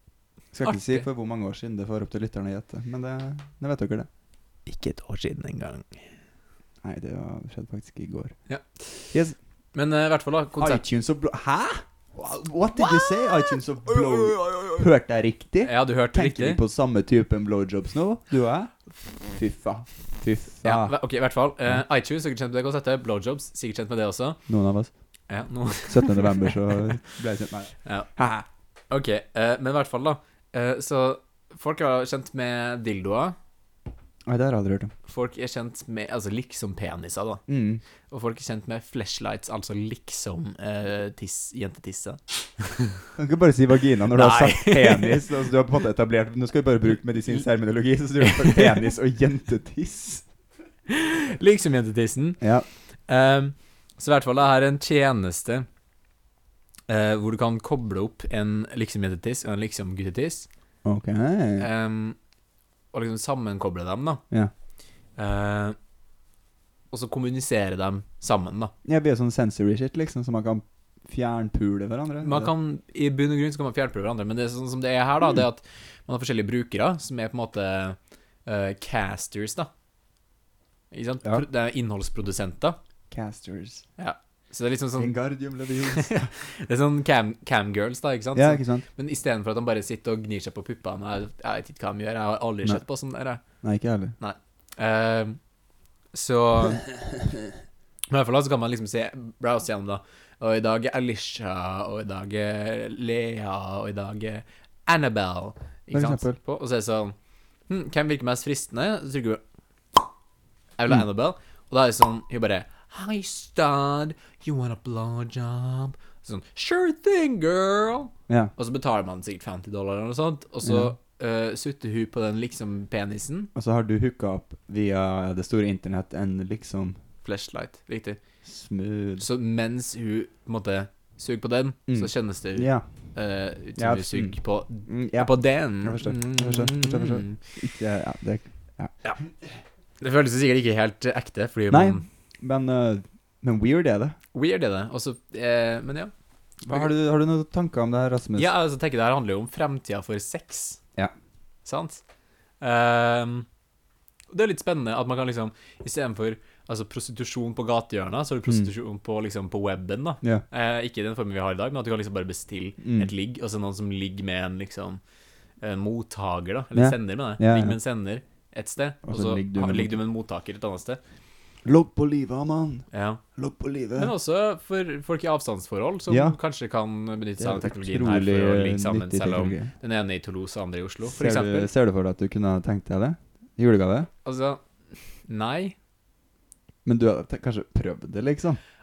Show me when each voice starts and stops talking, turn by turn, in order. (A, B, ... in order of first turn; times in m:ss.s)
0:00.5-0:04.1 A
0:00.6-0:01.1 B
0:04.7-0:06.0 B
0:06.8-0:08.3 A
0:08.5-0:09.1 B
0:09.8-0:10.8 B
0:10.6-0:20.9 A
0:12.8-0:14.9 B
0:15.6-0:16.6 B
0:20.6-0:24.4 B
0:24.5-0:24.9 A
0:25.3-0:27.1 B
0:25.9-0:28.5 A
0:27.8-0:28.1 B
0:28.9-0:33.4 B
0:34.3-0:34.9 A
0:35.1-0:37.4 B
0:37.5-0:37.8 A
0:38.1-0:43.0 B
0:43.2-0:50.3 A
0:44.1-0:45.3 B
0:48.2-0:48.8 B
0:50.9-0:52.4 B
0:52.4-0:52.7 A
0:53.1-0:55.7 B
0:56.9-1:00.5 B
1:00.8-1:01.7 A
1:01.6-1:02.2 B
1:02.9-1:04.2 B
1:05.2-1:05.8 B
1:06.9-1:08.7 B
1:08.8-1:12.5 A
1:12.2-1:19.7 B
1:20.9-1:22.8 B
1:23.1-1:23.9 A
1:24.0-1:25.1 B
1:25.0-1:26.3 A
1:25.9-1:33.4 B
1:28.4-1:28.8 A
1:33.6-1:34.2 A
1:34.2-1:35.4 B
1:36.1-1:36.9 B
1:38.1-1:47.2 B
1:45.9-1:46.4 A
1:47.7-1:49.4 B
1:50.8-2:03.5 B
2:00.6-2:00.9 A
2:03.6-2:07.0 A
2:07.2-2:08.2 B
2:08.4-2:09.2 A
2:09.2-2:17.4 B
2:11.9-2:12.8 A
2:13.8-2:18.9 A
2:20.0-2:22.1 B
2:21.7-2:24.2 A
2:24.3-2:26.1 B
2:26.6-2:28.5 A
2:28.4-2:30.8 B
2:31.6-2:32.0 B
2:32.6-2:33.5 B
2:34.3-2:45.0 B
2:42.8-2:43.1 A
2:45.6-2:51.0 B
2:46.7-2:47.8 A
2:49.1-2:50.0 A
2:51.6-2:54.1 A
2:52.9-2:53.2 B
2:54.0-3:01.7 B
2:56.1-2:56.4 A
2:57.4-2:59.7 A
3:01.0-3:04.1 A
3:04.2-3:04.6 B
3:05.2-3:05.8 B
3:06.8-3:08.6 A